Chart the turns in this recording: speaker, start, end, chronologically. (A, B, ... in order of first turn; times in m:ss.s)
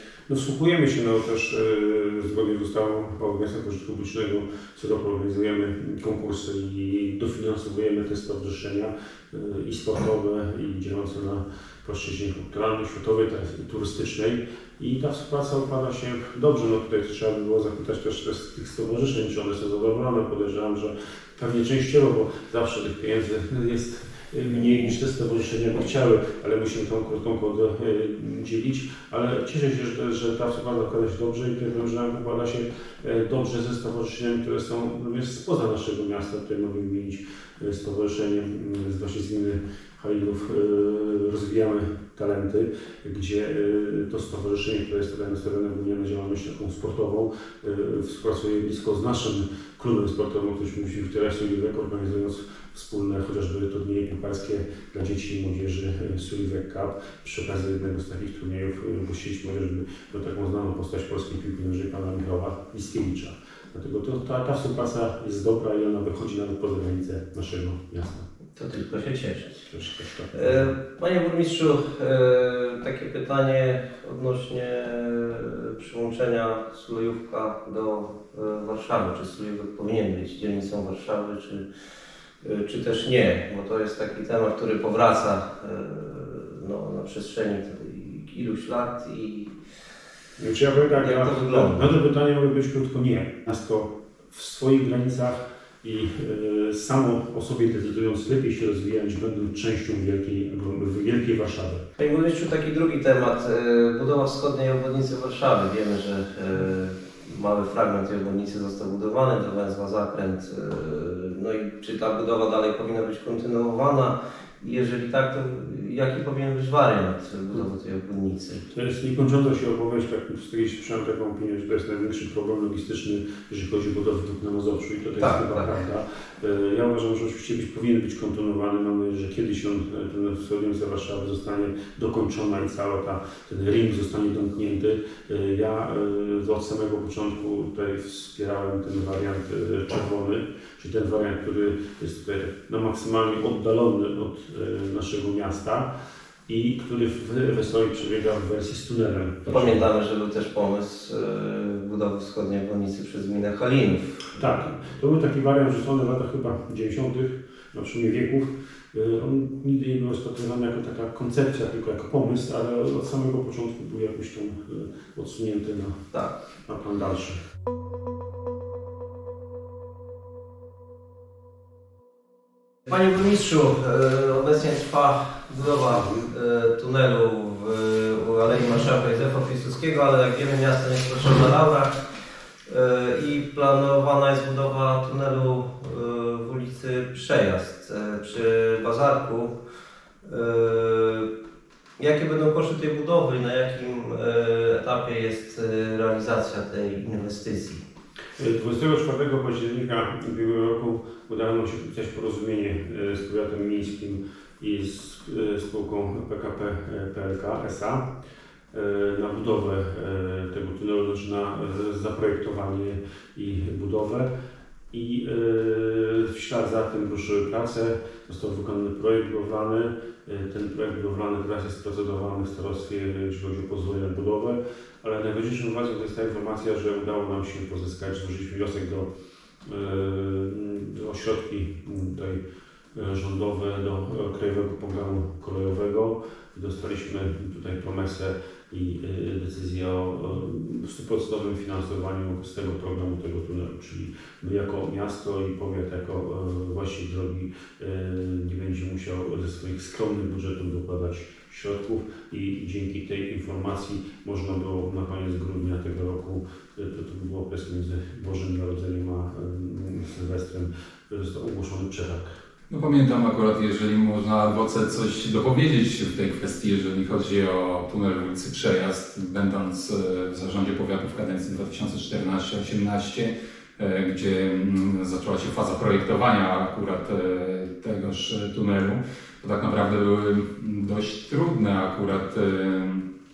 0:00.3-1:08.3 A
1:08.6-1:09.7 B
1:09.7-1:10.7 A
1:10.3-1:21.6 B
1:22.4-1:29.6 B
1:30.4-1:41.8 A
1:30.9-1:31.9 B
1:42.0-1:58.6 B
1:58.7-2:25.9 A
2:05.2-2:05.7 B
2:26.5-2:29.8 A
2:29.5-2:34.3 B
2:34.4-2:46.1 A
2:46.7-2:47.4 A
2:52.9-3:02.0 B
2:56.0-2:56.3 A
3:02.7-3:09.5 B
3:10.2-3:11.3 B
3:12.0-3:17.8 B
3:18.4-3:28.0 A
3:28.7-3:34.3 A
3:34.9-3:49.1 A
3:49.6-3:52.4 A
3:52.9-4:22.4 A
4:22.7-4:43.0 C